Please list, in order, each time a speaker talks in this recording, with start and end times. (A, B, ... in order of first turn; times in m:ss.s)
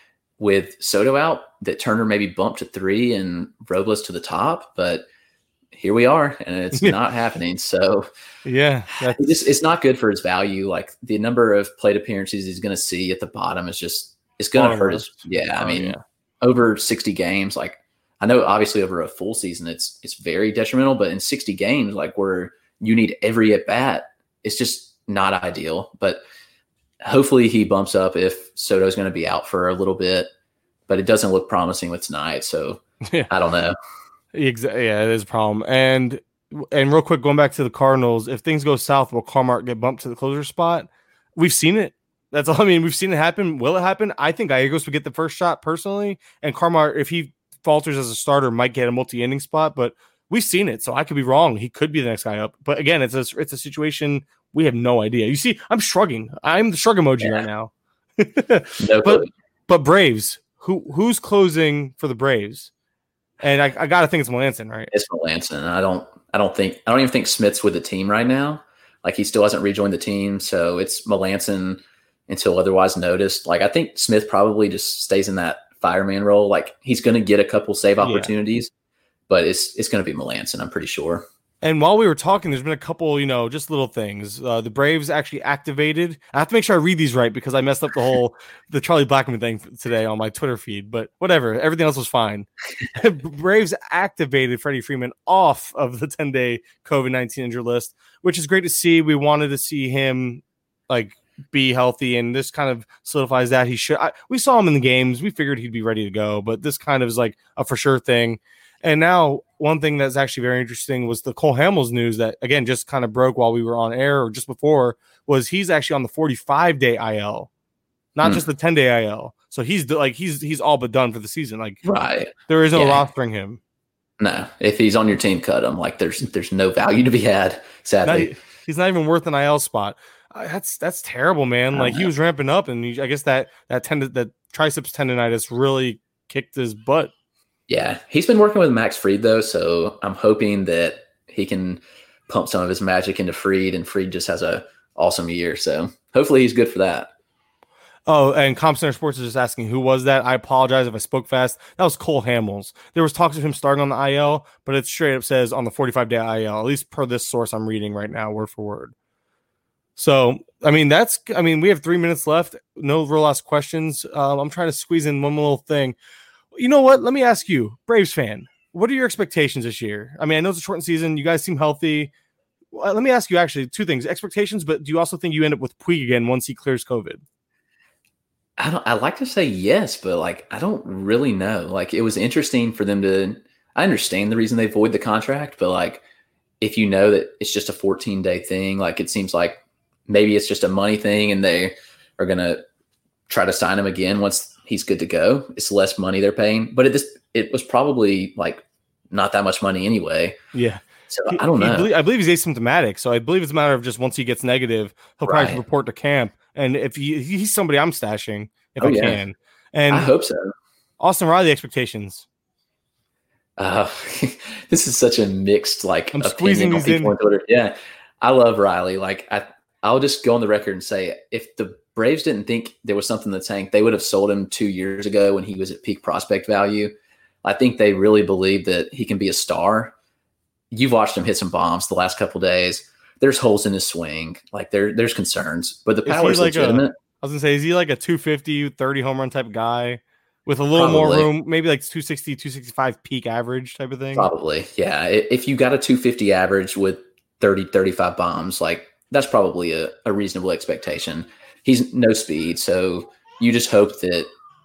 0:00.4-0:05.1 A
0:05.7-0:08.1 A
0:08.4-0:09.4 B
0:09.1-0:26.2 A
0:14.6-0:16.0 B
0:27.0-0:30.3 A
0:30.9-0:33.8 A
0:34.3-1:02.7 B
0:58.8-0:59.3 A
1:03.4-1:04.9 B
1:04.9-1:18.7 A
1:18.0-1:18.3 B
1:19.3-1:21.3 A
1:21.6-1:57.5 B
1:58.2-2:01.8 B
2:01.8-2:03.0 A
2:02.5-2:03.6 B
2:04.2-2:08.3 A
2:08.0-2:17.1 B
2:11.7-2:12.1 A
2:17.7-2:27.1 A
2:28.1-2:38.9 B
2:40.0-2:46.0 B
2:46.6-2:52.1 B
2:52.7-2:57.2 B
2:58.6-3:06.0 A
3:06.6-3:12.6 A
3:13.3-3:20.4 A
3:20.5-3:30.1 B
3:21.1-3:21.9 A
3:25.2-3:25.6 A
3:28.8-3:29.2 A
3:29.9-3:30.5 A
3:31.0-3:32.3 B
3:33.6-3:46.9 A
3:36.1-3:37.2 B
3:47.4-3:49.9 A
3:50.7-3:56.9 A
3:56.0-4:04.3 B
4:00.7-4:01.3 A
4:04.2-4:14.3 A